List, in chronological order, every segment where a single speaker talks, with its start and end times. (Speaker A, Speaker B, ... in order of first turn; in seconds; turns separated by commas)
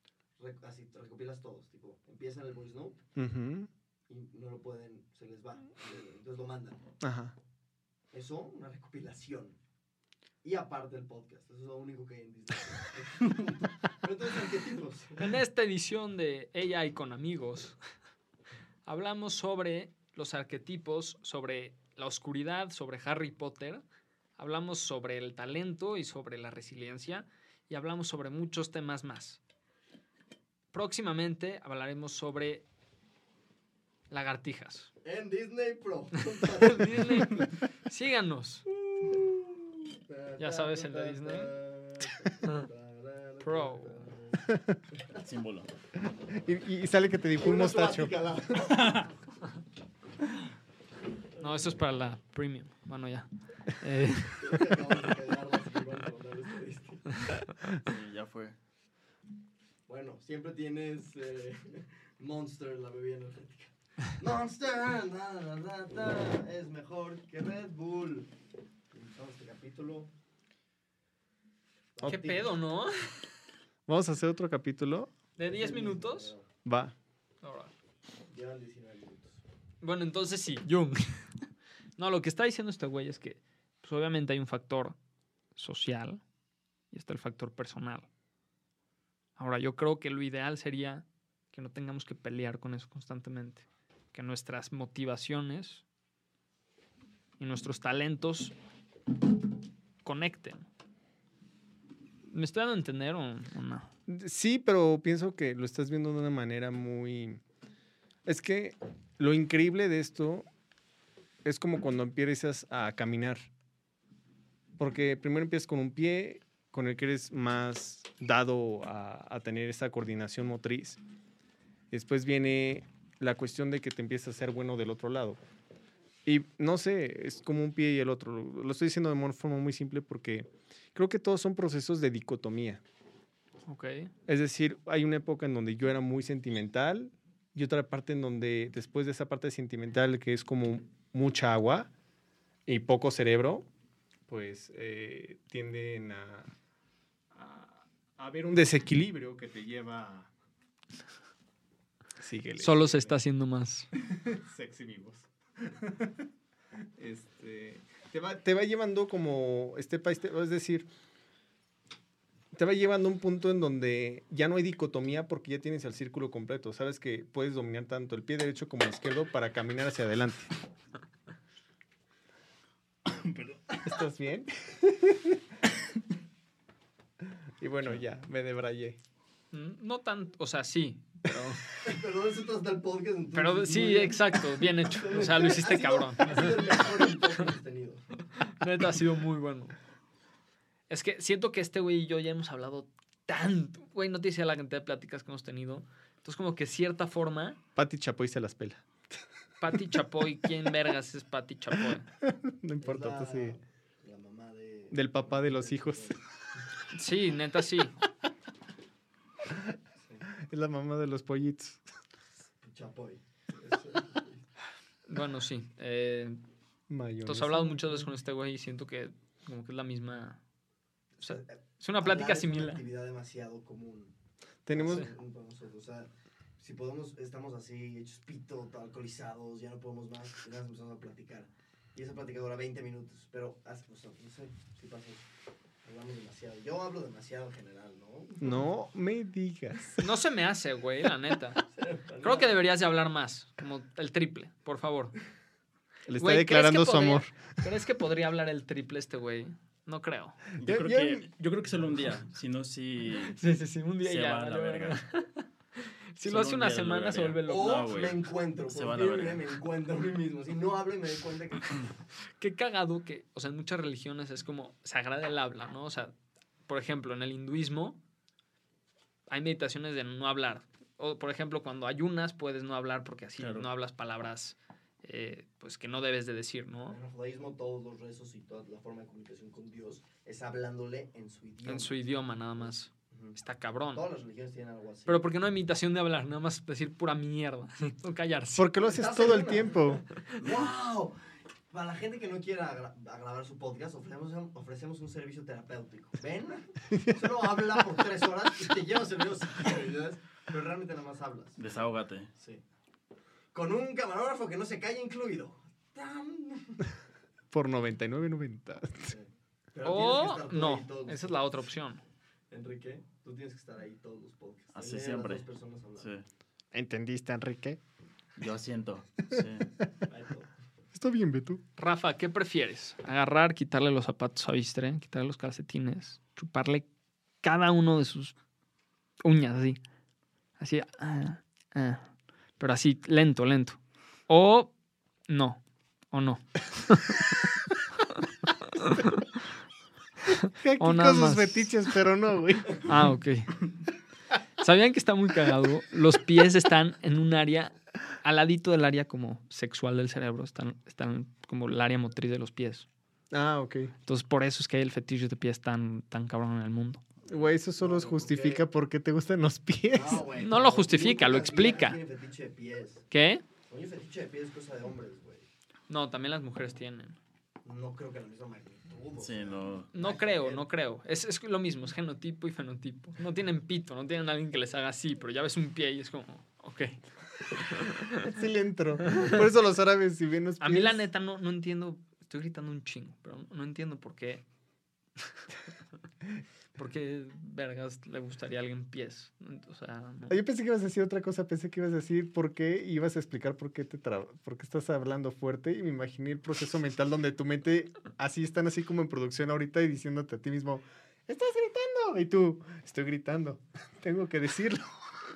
Speaker A: 0.4-3.0, Speaker B: 3.2-3.7, Speaker A: 4.1-6.9, Speaker B: 7.0-7.3, Speaker A: 8.1-9.6, Speaker A: 10.4-15.4, Speaker C: 15.2-17.8, Speaker C: 18.9-23.8, Speaker C: 24.4-29.4, Speaker C: 30.7-32.7, Speaker C: 34.1-34.9, Speaker A: 35.0-37.4, Speaker C: 36.4-38.7, Speaker A: 38.9-45.2, Speaker C: 40.4-41.5, Speaker C: 43.4-44.1, Speaker B: 44.5-44.8, Speaker D: 45.2-45.7, Speaker B: 46.0-48.1, Speaker A: 47.4-49.1, Speaker D: 48.7-49.1, Speaker A: 51.3-51.8, Speaker C: 51.4-54.7, Speaker A: 54.4-57.3, Speaker D: 57.8-58.6, Speaker A: 59.9-68.3, Speaker A: 68.9-70.1, Speaker A: 72.0-72.5, Speaker C: 72.0-73.2, Speaker B: 73.9-75.1, Speaker C: 75.4-76.3, Speaker A: 75.4-76.5, Speaker B: 76.7-77.0, Speaker C: 77.4-77.7, Speaker A: 78.3-79.4, Speaker C: 79.8-81.2, Speaker C: 82.0-85.0, Speaker C: 85.6-86.2, Speaker C: 86.9-88.1, Speaker C: 89.4-95.8, Speaker C: 97.4-98.5, Speaker C: 100.0-100.7, Speaker C: 102.3-103.9, Speaker B: 104.1-107.4, Speaker B: 108.3-110.5, Speaker B: 111.4-113.5, Speaker B: 114.8-121.0, Speaker B: 121.9-125.4, Speaker B: 126.3-132.8, Speaker C: 133.7-134.1, Speaker B: 134.3-141.9, Speaker B: 142.7-143.7, Speaker B: 144.3-146.5, Speaker B: 147.3-150.3, Speaker B: 152.2-153.2, Speaker C: 152.6-153.9, Speaker B: 154.1-156.2, Speaker B: 157.0-160.9, Speaker B: 162.5-170.5, Speaker D: 173.1-173.6, Speaker B: 173.8-175.4, Speaker B: 177.6-179.0, Speaker C: 179.5-181.6, Speaker A: 181.8-188.1, Speaker C: 183.3-186.7, Speaker C: 188.3-189.8, Speaker C: 190.9-197.6, Speaker B: 197.8-198.8, Speaker C: 199.6-202.1, Speaker B: 202.2-203.6, Speaker A: 202.8-206.2, Speaker B: 204.9-206.2, Speaker C: 206.9-207.9, Speaker A: 210.0-210.3, Speaker B: 210.4-211.8, Speaker A: 212.6-214.5, Speaker C: 215.1-216.4, Speaker B: 216.9-218.1, Speaker C: 217.2-220.4, Speaker A: 221.2-224.1, Speaker C: 221.2-222.8, Speaker B: 224.7-225.1, Speaker A: 224.7-235.3, Speaker A: 235.8-238.7, Speaker B: 238.4-240.1, Speaker C: 240.0-241.6, Speaker A: 241.6-242.6, Speaker C: 242.2-245.2, Speaker B: 246.1-247.4, Speaker C: 246.2-250.4, Speaker D: 250.6-253.4, Speaker B: 250.6-251.3, Speaker A: 251.8-252.1, Speaker C: 253.2-257.9, Speaker D: 254.0-255.0, Speaker D: 256.2-259.4, Speaker A: 257.5-261.9, Speaker C: 262.4-266.1, Speaker C: 266.7-268.0, Speaker C: 269.3-277.0, Speaker D: 273.4-273.7, Speaker A: 276.9-282.0, Speaker C: 281.6-284.0, Speaker A: 282.6-283.4, Speaker A: 283.9-285.3, Speaker C: 285.1-288.7, Speaker B: 288.6-290.0, Speaker A: 288.8-301.6, Speaker B: 296.9-297.2, Speaker D: 301.6-302.3, Speaker A: 302.4-302.6, Speaker A: 303.5-306.9, Speaker B: 307.5-309.1, Speaker A: 309.1-311.4, Speaker C: 309.8-312.0, Speaker A: 312.5-316.1, Speaker D: 314.7-315.5, Speaker D: 316.0-316.2, Speaker B: 316.7-317.8, Speaker D: 318.4-319.7, Speaker A: 320.1-320.5, Speaker B: 320.9-321.6, Speaker C: 321.8-326.9, Speaker C: 327.4-328.4, Speaker C: 329.2-329.8, Speaker C: 330.6-334.7, Speaker C: 335.3-337.4, Speaker C: 338.7-339.3, Speaker C: 340.4-341.7, Speaker B: 340.6-342.9, Speaker C: 342.9-343.6, Speaker C: 344.6-352.9, Speaker B: 353.3-353.9, Speaker C: 354.1-357.0, Speaker B: 357.3-360.3, Speaker A: 357.8-358.6, Speaker A: 359.9-363.1, Speaker C: 360.4-362.0, Speaker C: 363.1-363.4, Speaker A: 363.7-365.5, Speaker C: 365.9-367.2, Speaker A: 367.6-370.6, Speaker D: 369.2-369.9, Speaker C: 369.9-377.0, Speaker C: 377.6-378.2, Speaker B: 378.1-381.0, Speaker C: 380.6-384.4, Speaker C: 386.8-390.4, Speaker B: 390.3-405.0